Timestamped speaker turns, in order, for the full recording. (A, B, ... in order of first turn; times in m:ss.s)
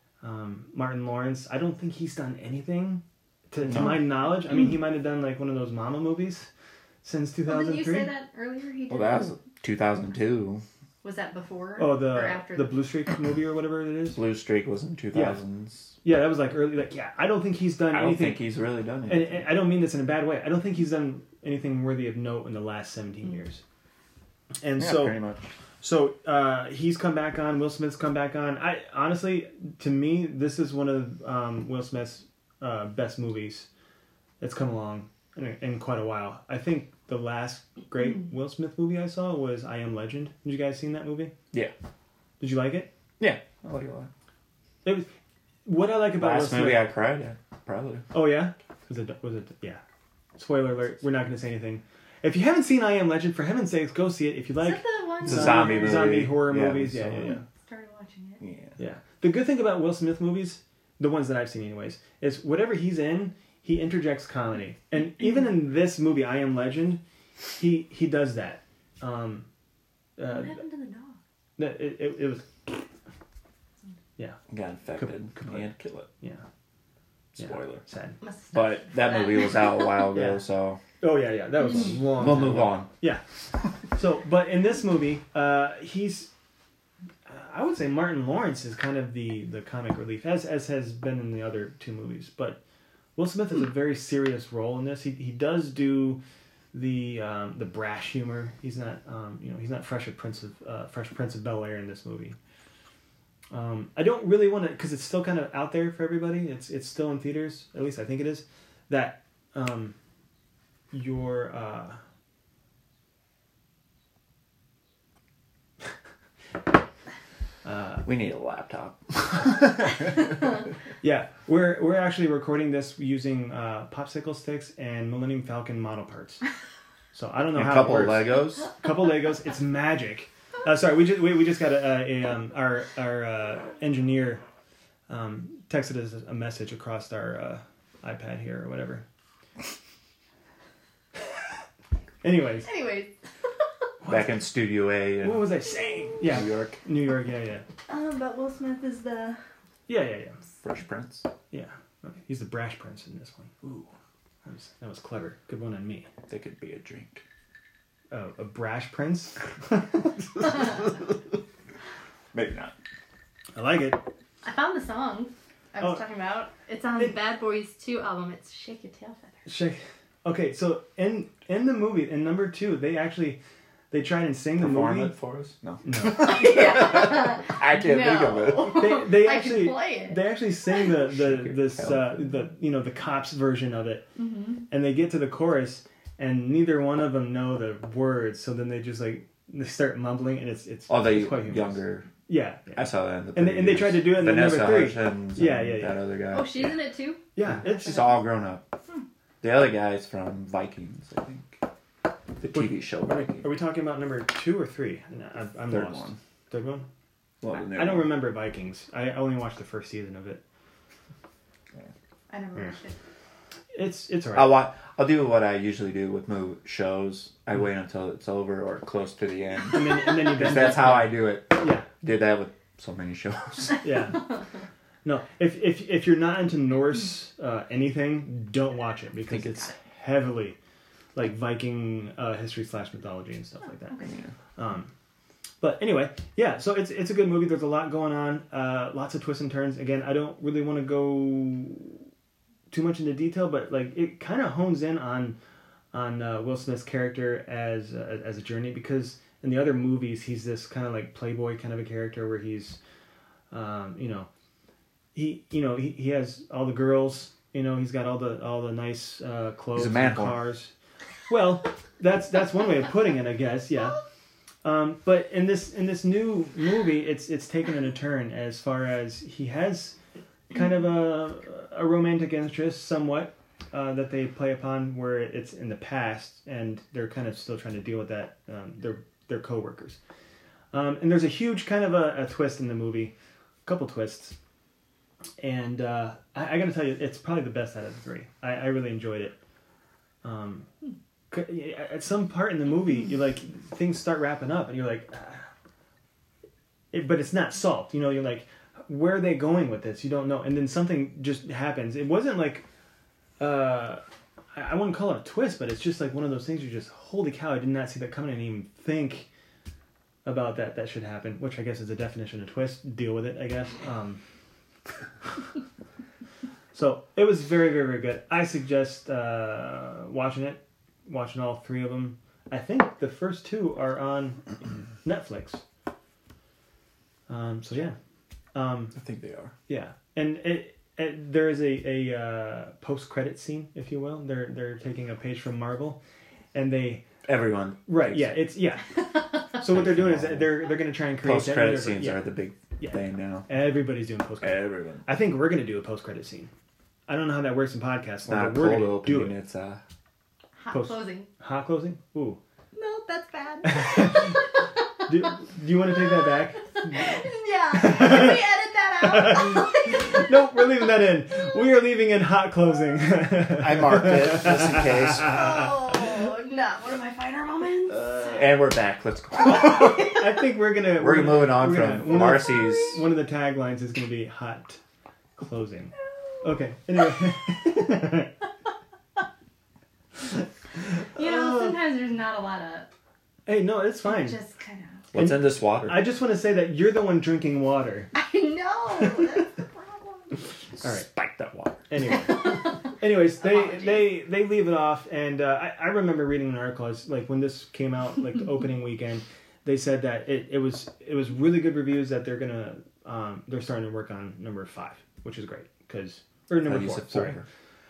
0:00.2-0:06.5 A
0:07.0-0:08.1 A
0:07.5-0:09.3 B
0:08.9-0:10.6 C
0:11.0-0:12.7 B
0:11.8-0:14.2 A
0:14.1-0:16.0 C
0:15.1-0:15.4 A
0:16.0-0:18.4 A
0:17.9-0:19.6 C
0:19.1-0:23.6 A
0:24.6-0:25.2 A
0:24.8-0:25.5 C
0:25.8-0:33.7 A
0:34.4-0:41.3 A
0:42.4-0:42.9 A
0:43.2-0:44.1 C
0:45.6-0:46.9 A
0:46.2-0:48.1 C
0:48.1-0:49.8 A
0:50.4-0:57.4 A
0:54.6-0:56.1 B
0:55.2-0:57.4 C
0:57.7-0:58.4 B
0:58.4-0:58.8 C
0:58.8-1:07.0 A
1:07.6-1:09.5 A
1:10.2-1:10.6 A
1:10.3-1:11.2 B
1:11.6-1:12.9 A
1:14.5-1:16.1 C
1:15.0-1:16.4 A
1:17.4-1:17.8 C
1:17.4-1:18.2 A
1:18.2-1:20.1 B
1:18.5-1:20.8 C
1:20.1-1:20.4 A
1:21.0-1:23.2 A
1:21.8-1:22.9 C
1:24.0-1:26.3 A
1:27.3-1:32.6 A
1:33.2-1:36.2 A
1:36.7-1:42.4 A
1:43.5-1:50.0 A
1:50.9-1:52.0 A
1:57.6-1:58.1 A
1:58.0-2:00.1 C
2:01.0-2:06.4 A
2:07.1-2:14.4 A
2:07.5-2:08.7 C
2:15.1-2:19.0 A
2:22.2-2:22.7 A
2:22.6-2:23.1 B
2:24.0-2:24.5 A
2:24.1-2:25.5 C
2:25.1-2:27.6 A
2:26.2-2:26.8 C
2:27.9-2:29.4 B
2:29.9-2:30.4 A
2:30.6-2:31.3 C
2:31.5-2:33.9 A
2:34.4-2:36.1 A
2:36.3-2:37.2 C
2:38.1-2:39.9 A
2:40.5-2:41.0 C
2:42.3-2:42.8 C
2:43.6-2:44.0 A
2:44.4-2:49.5 B
2:49.5-2:53.4 A
2:53.9-2:55.2 A
2:54.6-2:58.9 C
2:55.8-2:56.4 A
2:56.1-3:00.3 B
2:58.7-3:04.1 A
3:01.1-3:02.3 C
3:04.2-3:04.6 B
3:04.7-3:16.1 A
3:10.9-3:12.1 C
3:12.8-3:16.8 C
3:16.3-3:18.2 B
3:17.3-3:18.2 A
3:17.4-3:18.7 C
3:19.4-3:21.6 C
3:22.4-3:23.6 C
3:22.5-3:26.9 A
3:25.7-3:26.2 C
3:27.4-3:28.1 C
3:27.5-3:30.4 A
3:32.3-3:33.0 B
3:33.7-3:34.6 A
3:34.3-3:43.8 C
3:39.7-3:41.9 A
3:43.8-3:44.3 A
3:45.0-3:50.6 A
3:49.3-3:49.7 C
3:51.2-3:54.0 A
3:54.0-3:54.3 C
3:54.6-3:54.9 A
3:55.6-4:02.0 A
4:02.7-4:05.4 A
4:05.9-4:12.8 A
4:13.5-4:14.3 A
4:15.2-4:20.7 A
4:19.8-4:20.4 C
4:21.3-4:24.0 A
4:24.6-4:30.0 A
4:30.5-4:40.0 A
4:40.7-4:43.1 A
4:43.6-4:44.4 A
4:45.4-4:49.4 A
4:50.2-4:50.7 A
4:51.3-4:55.5 A
4:56.9-5:02.6 A
5:03.4-5:04.0 A
5:04.6-5:09.3 A
5:10.2-5:14.2 A
5:16.7-5:24.5 A
5:25.0-5:25.6 A
5:27.3-5:28.0 A
5:28.5-5:29.0 A
5:28.9-5:29.5 C
5:29.7-5:36.0 A
5:36.5-5:37.0 A
5:37.2-5:38.4 C
5:37.9-5:42.3 A
5:39.6-5:40.6 C
5:41.2-5:43.6 C
5:42.8-5:46.5 A
5:44.4-5:45.1 C
5:47.1-5:49.4 A
5:48.2-5:49.8 C
5:50.6-5:51.3 B
5:50.7-5:52.4 A
5:52.8-5:54.6 B
5:53.6-5:54.4 A
5:55.0-5:57.2 A
5:56.9-6:00.3 B
5:57.7-5:58.4 A
5:59.0-6:05.4 A
6:03.5-6:05.4 C
6:05.2-6:08.4 B
6:08.2-6:10.2 C
6:10.0-6:14.8 A
6:11.0-6:13.0 C
6:12.4-6:12.8 B
6:15.4-6:18.3 A
6:21.2-6:22.9 B
6:21.2-6:21.6 A
6:23.4-6:24.4 A
6:24.0-6:25.1 B
6:25.1-6:26.0 C
6:25.2-6:28.1 A
6:28.1-6:30.3 B
6:29.0-6:29.4 A
6:30.8-6:31.9 C
6:30.8-6:31.1 A
6:31.9-6:47.4 A
6:33.4-6:34.1 B
6:46.6-6:47.4 C